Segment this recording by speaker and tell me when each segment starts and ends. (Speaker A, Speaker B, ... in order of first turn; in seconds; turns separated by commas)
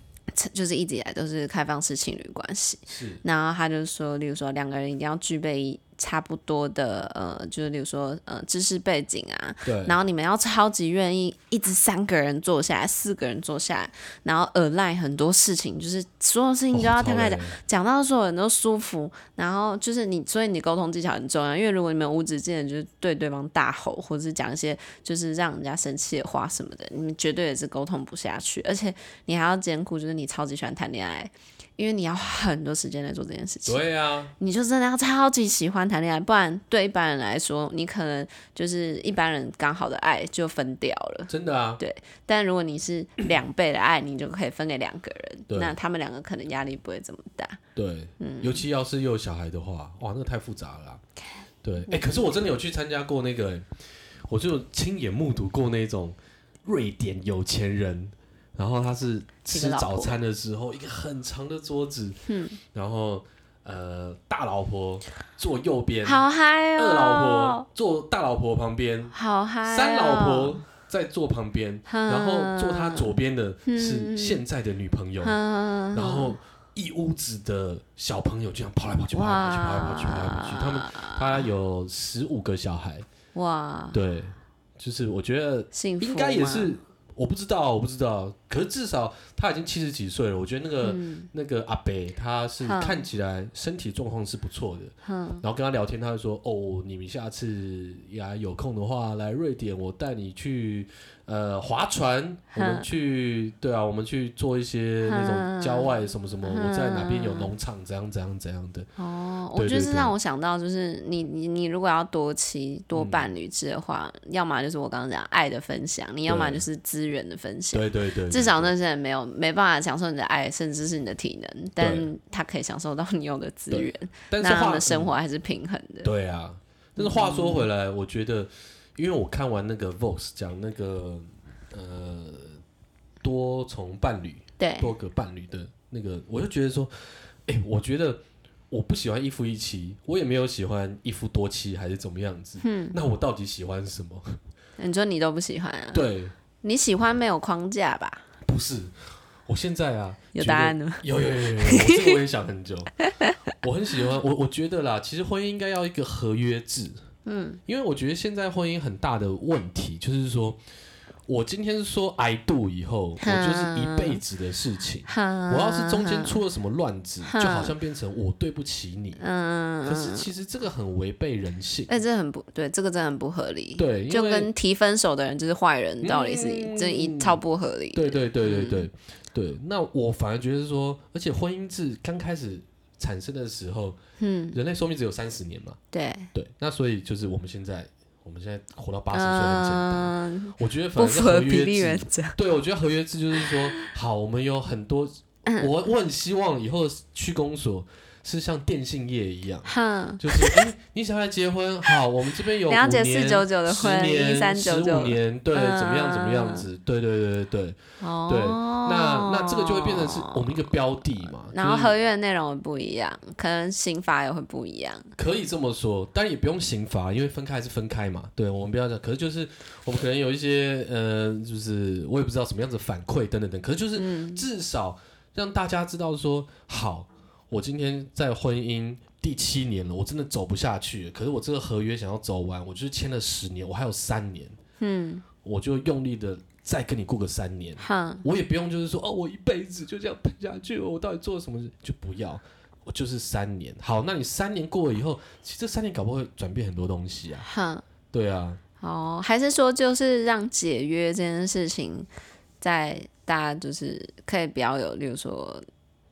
Speaker A: 0.3-33.8, Speaker B: 2.9-3.2, Speaker B: 9.6-10.0, Speaker B: 16.7-17.6, Speaker B: 33.6-34.3, Speaker A: 34.4-47.6, Speaker B: 41.3-41.8, Speaker B: 45.5-45.8, Speaker B: 47.7-51.0, Speaker A: 48.2-48.6, Speaker B: 51.6-66.2, Speaker A: 51.9-52.2, Speaker A: 59.5-60.1, Speaker A: 62.3-62.6, Speaker A: 66.0-67.7, Speaker B: 66.8-69.1, Speaker A: 69.1-70.6, Speaker B: 69.6-75.4, Speaker A: 71.9-73.1, Speaker A: 73.7-74.4, Speaker A: 75.2-76.4, Speaker B: 75.9-83.0, Speaker A: 79.1-81.5, Speaker A: 83.3-84.0, Speaker B: 83.9-108.9, Speaker A: 85.7-86.8, Speaker A: 90.8-91.3, Speaker A: 92.6-93.0, Speaker A: 95.0-95.4, Speaker A: 102.5-102.9, Speaker A: 105.0-107.5, Speaker A: 109.0-126.1, Speaker B: 109.5-110.1, Speaker B: 112.9-113.3, Speaker B: 116.2-116.6, Speaker B: 117.7-118.7, Speaker B: 121.8-122.1, Speaker B: 123.7-125.1, Speaker B: 126.0-132.6, Speaker A: 127.0-127.7, Speaker B: 133.2-144.4, Speaker A: 134.6-134.9, Speaker A: 142.6-143.0, Speaker A: 144.8-146.1, Speaker B: 145.9-146.3, Speaker A: 146.6-148.2, Speaker B: 148.4-153.0, Speaker A: 150.3-152.2, Speaker A: 153.0-153.4, Speaker B: 153.6-157.0, Speaker A: 157.2-157.6, Speaker B: 157.7-160.6, Speaker B: 161.3-169.2, Speaker A: 163.2-164.2, Speaker A: 165.1-166.4, Speaker A: 167.2-167.7, Speaker A: 169.2-170.3, Speaker B: 169.8-171.9, Speaker A: 171.9-178.9, Speaker B: 173.8-174.5, Speaker B: 176.0-177.4, Speaker B: 177.9-184.0, Speaker A: 184.2-184.6, Speaker B: 184.5-185.8, Speaker A: 185.9-186.3, Speaker B: 186.3-211.9, Speaker A: 189.1-192.3, Speaker A: 193.3-193.9, Speaker A: 199.7-200.7, Speaker A: 202.7-206.7, Speaker A: 208.0-210.7, Speaker A: 211.5-215.1, Speaker B: 215.2-234.6, Speaker A: 223.9-224.4, Speaker A: 234.8-235.2, Speaker B: 235.4-247.4, Speaker A: 237.8-238.2, Speaker A: 247.4-247.8, Speaker B: 248.1-248.6, Speaker A: 248.8-252.1, Speaker A: 252.6-255.6